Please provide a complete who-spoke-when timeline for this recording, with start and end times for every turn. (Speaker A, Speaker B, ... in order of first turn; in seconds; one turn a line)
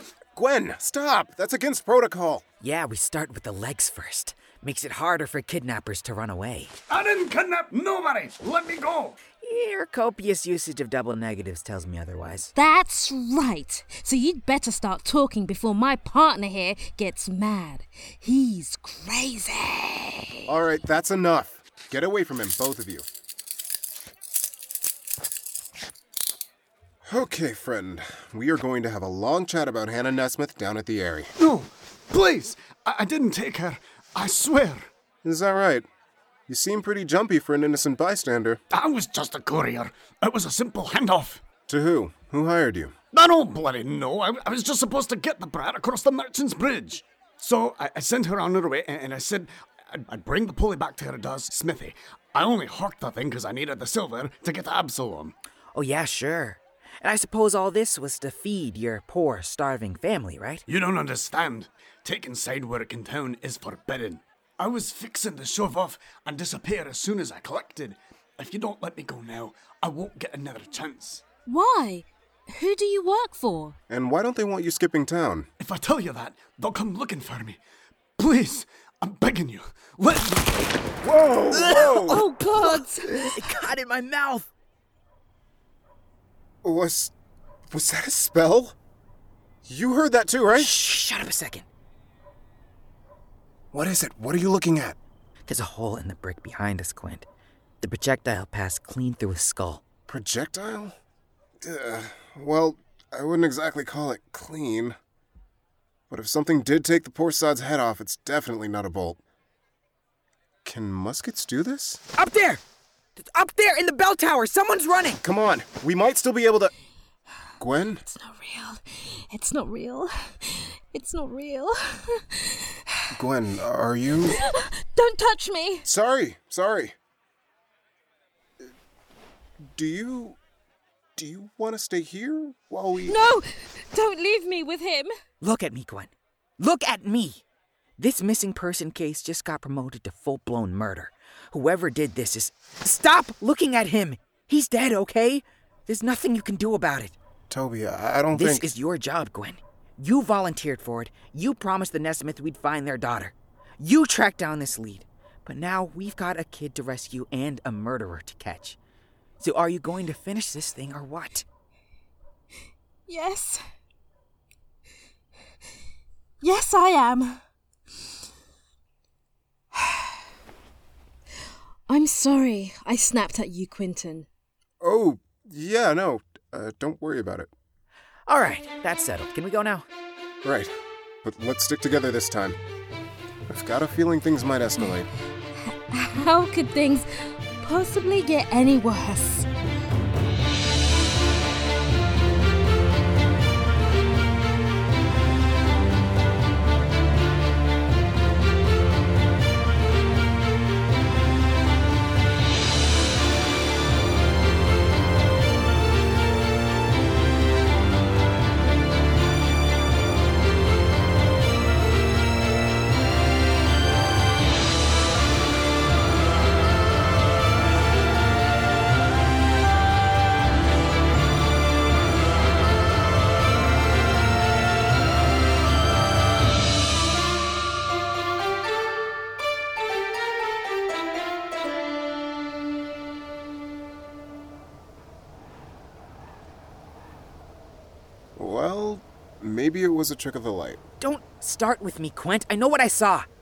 Speaker A: 0.3-2.4
Speaker B: 2.6-6.7
Speaker C: 6.9-9.2
Speaker B: 9.4-12.5
Speaker D: 12.6-20.4
Speaker A: 20.5-23.1
Speaker A: 27.1-31.3
Speaker C: 31.4-34.9
Speaker A: 35.2-35.9
Speaker A: 36.5-38.6
Speaker C: 38.7-41.4
Speaker A: 41.7-43.0
Speaker C: 43.1-55.4
Speaker B: 55.7-60.6
Speaker C: 60.7-71.2
Speaker D: 71.5-73.8
Speaker A: 73.9-75.5
Speaker C: 75.6-77.6
Speaker C: 78.2-80.8
Speaker A: 81.0-82.3
Speaker C: 81.5-82.0
Speaker B: 81.6-81.9
Speaker D: 81.7-83.4
Speaker B: 82.6-84.5
Speaker A: 86.6-87.1
Speaker A: 87.7-88.8
Speaker A: 89.7-90.8
Speaker B: 90.5-91.7
Speaker A: 93.7-95.0
Speaker B: 95.5-97.3
Speaker B: 97.8-99.8
Speaker A: 100.1-101.0
Speaker A: 101.6-105.0
Speaker A: 106.1-109.2
Speaker A: 110.7-112.0
Speaker B: 112.2-112.6
Speaker B: 113.2-115.2
Speaker A: 115.2-116.7
Speaker A: 117.6-118.0
Speaker D: 118.1-123.1
Speaker A: 123.1-124.4
Speaker D: 124.3-125.9
Speaker A: 125.8-126.9
Speaker A: 129.7-130.4
Speaker A: 131.2-133.2
Speaker D: 133.1-135.1
Speaker B: 135.4-137.4
Speaker B: 138.0-147.2
Speaker A: 147.5-148.7
Speaker B: 148.3-158.8
Speaker B: 159.4-161.5
Speaker D: 163.1-163.6
Speaker D: 166.4-167.4
Speaker D: 169.8-170.1
Speaker D: 171.9-174.3
Speaker A: 174.8-177.5
Speaker B: 178.3-179.9
Speaker A: 180.4-180.7
Speaker A: 181.2-182.6
Speaker A: 183.5-185.1
Speaker D: 185.6-189.5
Speaker A: 238.4-240.8
Speaker B: 241.0-243.3